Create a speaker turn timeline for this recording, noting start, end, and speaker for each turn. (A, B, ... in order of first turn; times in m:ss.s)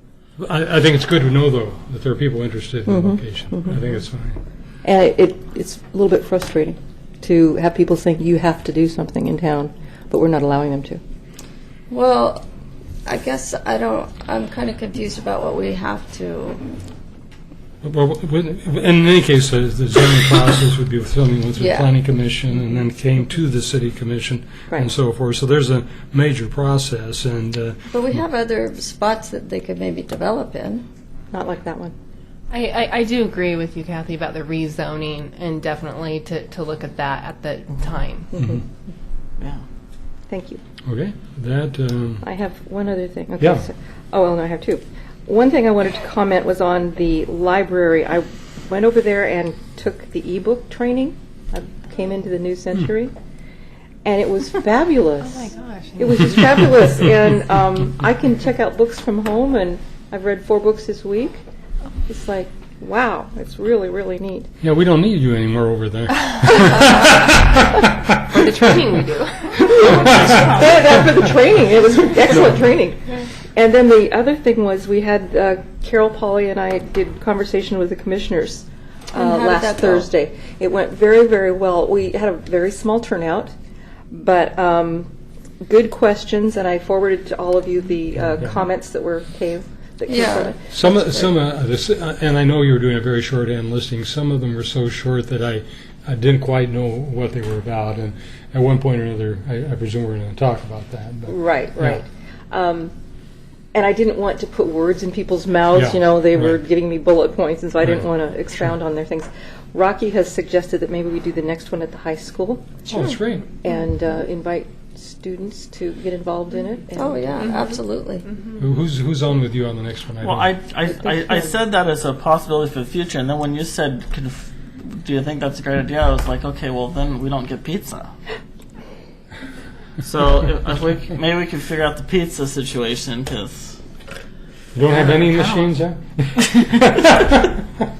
0:00.4-0:04.4 A
0:02.9-0:03.8 B
0:04.8-0:11.0 B
0:11.9-0:12.4 C
0:13.0-0:16.6 C
0:17.8-0:28.2 A
0:21.6-0:21.9 C
0:27.9-0:30.8 C
0:31.3-0:31.9 B
0:32.5-0:38.3 D
0:38.3-0:38.6 B
0:40.3-0:40.6 B
0:40.8-0:42.2 A
0:42.2-0:53.1 B
0:54.0-1:01.4 B
0:55.4-0:56.4 D
1:02.1-1:04.5 B
1:04.6-1:08.6 A
1:08.3-1:10.2 D
1:09.7-1:10.6 C
1:09.8-1:13.0 B
1:09.9-1:10.4 A
1:13.6-1:23.5 B
1:19.2-1:20.1 C
1:24.1-1:25.1 B
1:25.6-1:30.7 B
1:30.1-1:31.3 C
1:30.7-1:42.0 A
1:41.3-1:42.9 B
1:43.7-1:52.7 B
1:45.7-1:46.6 A
1:52.9-1:53.5 A
1:53.6-1:57.7 B
1:56.9-1:58.3 C
1:58.6-2:00.5 A
2:00.2-2:08.1 E
2:10.0-2:13.8 E
2:14.7-2:17.6 A
2:14.9-2:15.8 E